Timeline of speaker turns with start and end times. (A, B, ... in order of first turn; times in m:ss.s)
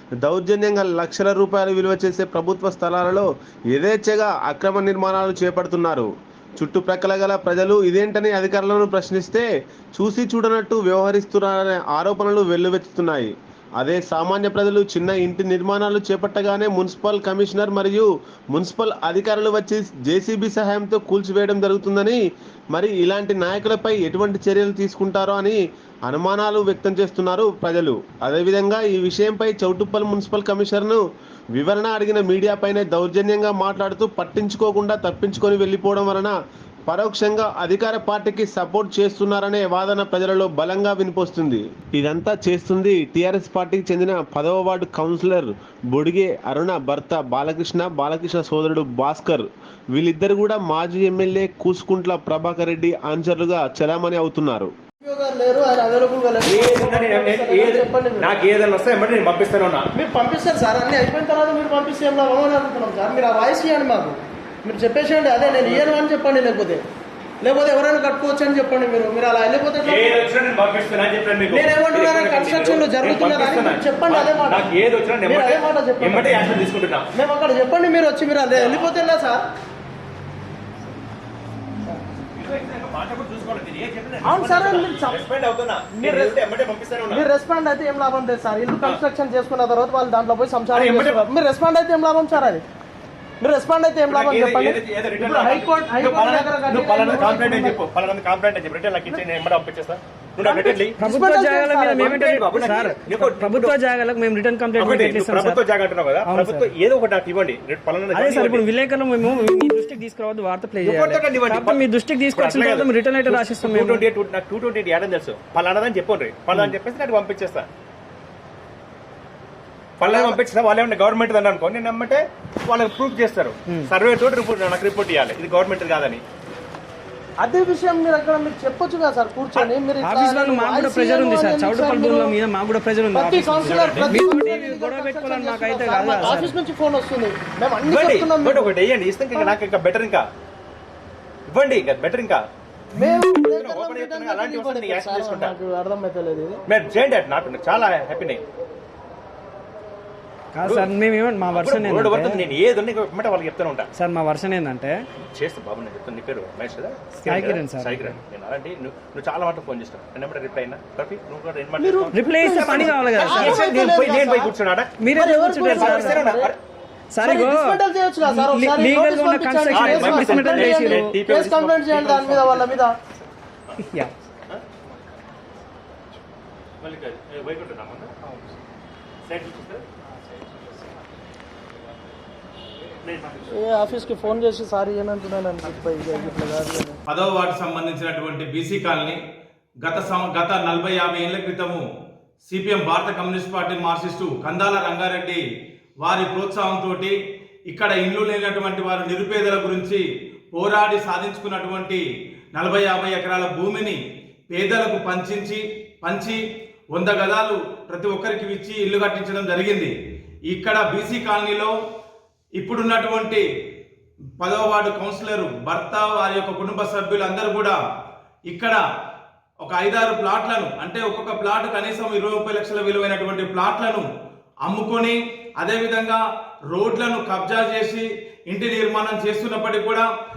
0:00.2-0:22.2 A
0:22.7-0:31.0 A
0:31.6-0:36.3 A
0:36.9-0:54.7 A
0:55.0-0:58.4 B
0:56.4-0:59.9 C
0:59.9-1:06.8 B
1:05.5-1:05.9 C
1:07.4-1:10.2 B
1:09.8-1:17.1 C
1:11.5-1:16.4 B
1:17.1-1:19.4 B
1:18.5-1:18.9 C
1:22.3-1:27.2 C
1:24.2-1:25.2 B
1:25.9-1:26.3 B
1:27.1-1:32.6 B
1:30.7-1:31.2 C
1:33.4-1:37.8 B
1:34.1-1:41.0 C
1:40.4-1:42.9 B
1:41.0-1:45.6 D
1:42.0-1:43.8 C
1:44.8-1:48.6 C
1:46.2-1:46.7 D
1:48.1-1:54.1 D
1:50.8-1:57.7 C
2:00.0-2:06.2 C
2:00.0-2:00.4 B
2:07.4-2:12.3 B
2:10.0-2:16.6 D
2:13.1-2:18.8 B
2:13.6-2:14.2 C
2:17.9-2:20.2 C
2:21.5-2:22.4 C
2:22.9-2:26.6 B
2:23.4-2:25.5 C
2:26.7-2:28.4 C
2:30.6-2:32.4 D
2:30.6-2:30.9 C
2:31.5-2:33.9 C
2:33.9-2:34.9 D
2:35.2-2:45.0 C
2:37.2-2:38.2 D
2:41.8-2:44.5 B
2:42.1-2:44.2 D
2:45.0-2:46.2 D
2:45.1-2:46.5 B
2:45.6-2:46.6 C
2:47.1-2:51.1 D
2:47.2-2:52.9 B
2:49.7-2:52.8 C
2:53.8-2:54.1 D
2:56.8-2:58.1 C
2:59.2-2:59.8 C
3:03.0-3:04.2 C
3:03.5-3:07.0 B
3:07.1-3:09.2 E
3:09.8-3:11.8 E
3:12.4-3:15.4 E
3:16.0-3:17.1 E
3:17.7-3:20.0 E
3:20.5-3:22.0 E
3:22.5-3:24.0 E
3:24.5-3:26.4 E
3:26.9-3:29.9 E
3:30.5-3:31.7 E
3:32.6-3:33.4 E
3:34.4-3:37.8 E
3:38.5-3:38.8 E
3:39.6-3:44.0 E
3:44.6-3:46.2 E
3:46.7-3:50.0 E